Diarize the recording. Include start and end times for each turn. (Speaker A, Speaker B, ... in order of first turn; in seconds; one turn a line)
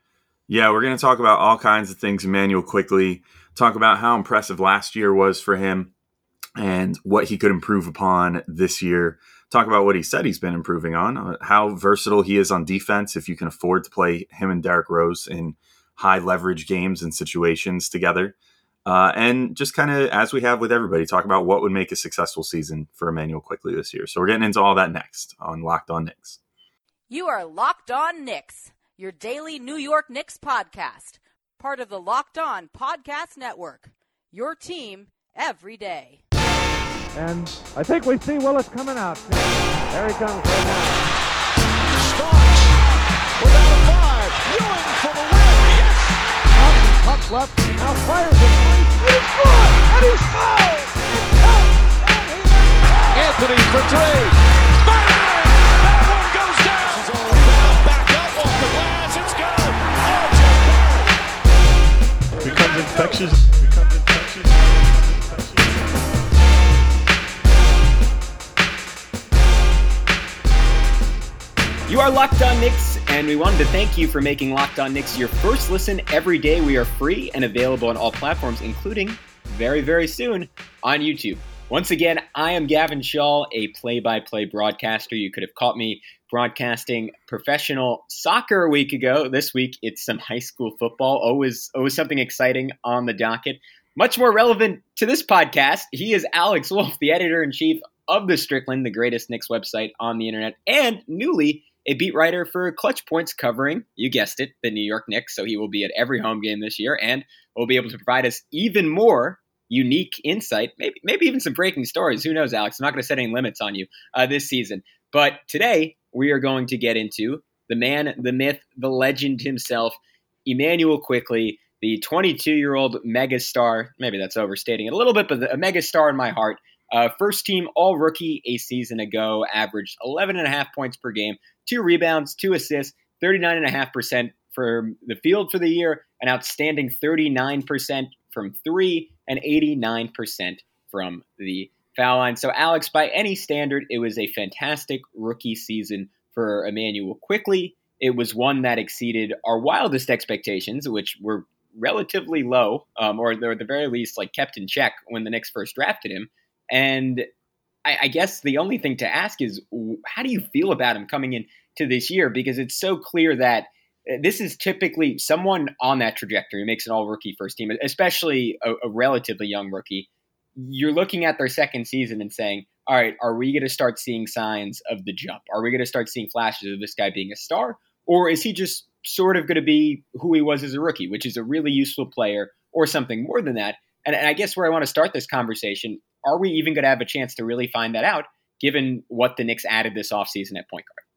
Speaker A: 0.5-5.9
Speaker A: 6.6-26.4
Speaker B: 27.1-36.2
Speaker C: 37.1-41.1
Speaker D: 42.0-42.8
Speaker D: 43.4-46.1
Speaker C: 46.5-53.9
Speaker D: 53.1-61.1
Speaker A: 62.4-65.6
Speaker C: 62.4-62.9
Speaker E: 71.9-157.3
Speaker E: 157.8-191.0